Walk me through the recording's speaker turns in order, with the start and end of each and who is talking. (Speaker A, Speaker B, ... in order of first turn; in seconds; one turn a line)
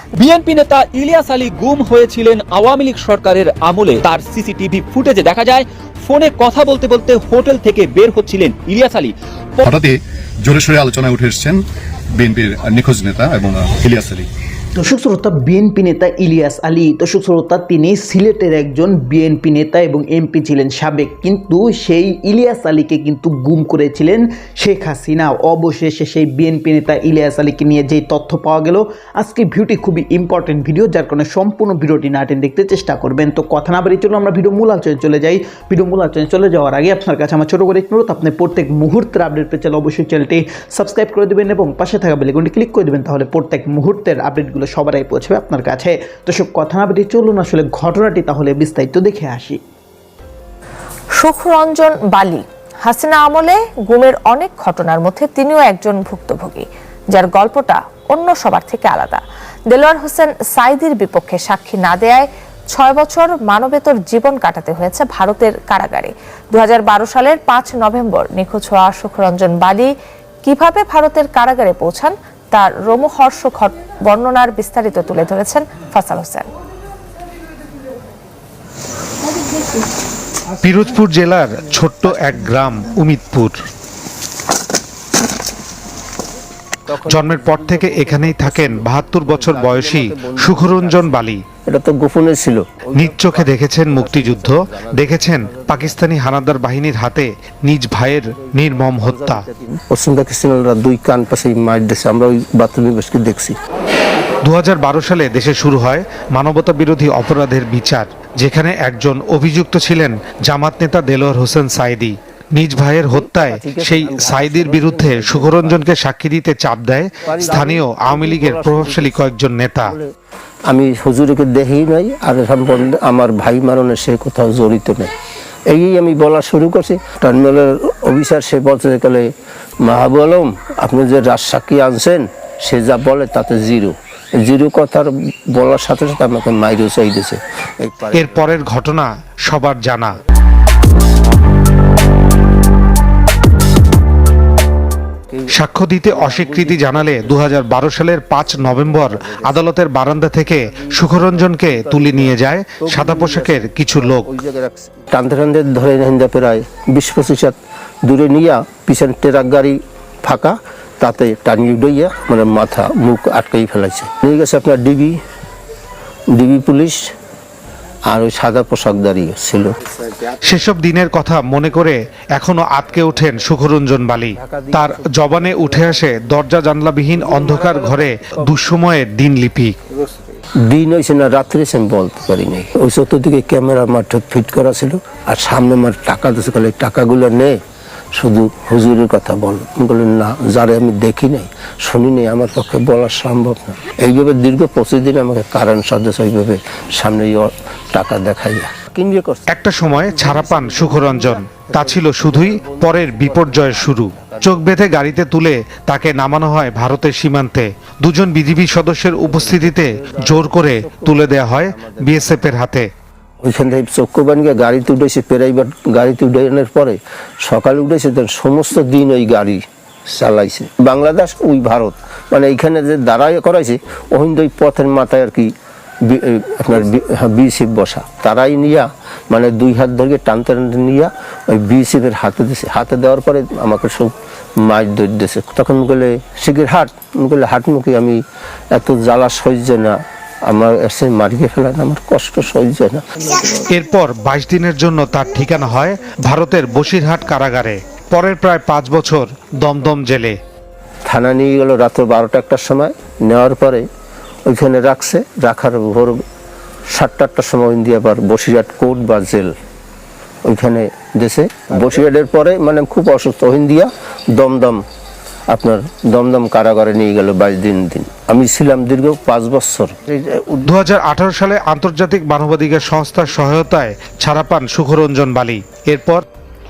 Speaker A: 0.2-9.1
Speaker B: 9.6-11.6
Speaker B: 12.2-14.3
Speaker C: 14.7-49.6
Speaker D: 51.2-69.9
Speaker D: 70.4-76.5
Speaker E: 80.6-83.6
Speaker F: 86.9-91.1
Speaker E: 87.0-91.4
Speaker F: 91.7-96.0
Speaker E: 92.9-99.4
Speaker F: 98.4-103.5
Speaker E: 104.4-119.9
Speaker F: 113.1-115.8
Speaker F: 117.2-119.3
Speaker F: 119.8-120.1
Speaker F: 120.7-125.1
Speaker F: 125.7-129.3
Speaker F: 129.8-138.5
Speaker E: 138.1-140.2
Speaker E: 145.5-154.3
Speaker F: 146.1-147.5
Speaker F: 148.6-149.7
Speaker F: 150.6-165.2
Speaker F: 166.3-167.1
Speaker F: 168.1-170.3
Speaker E: 170.4-179.8
Speaker F: 174.3-176.1
Speaker F: 177.2-178.6
Speaker F: 180.6-187.6
Speaker F: 188.1-204.7
Speaker E: 199.5-212.9
Speaker F: 209.2-212.5
Speaker F: 213.4-225.5
Speaker F: 226.0-238.2
Speaker F: 238.7-243.5
Speaker E: 243.7-250.4
Speaker F: 251.1-253.8
Speaker F: 254.5-256.2
Speaker F: 256.9-259.5
Speaker F: 260.4-264.8
Speaker F: 265.5-270.7
Speaker E: 270.6-276.2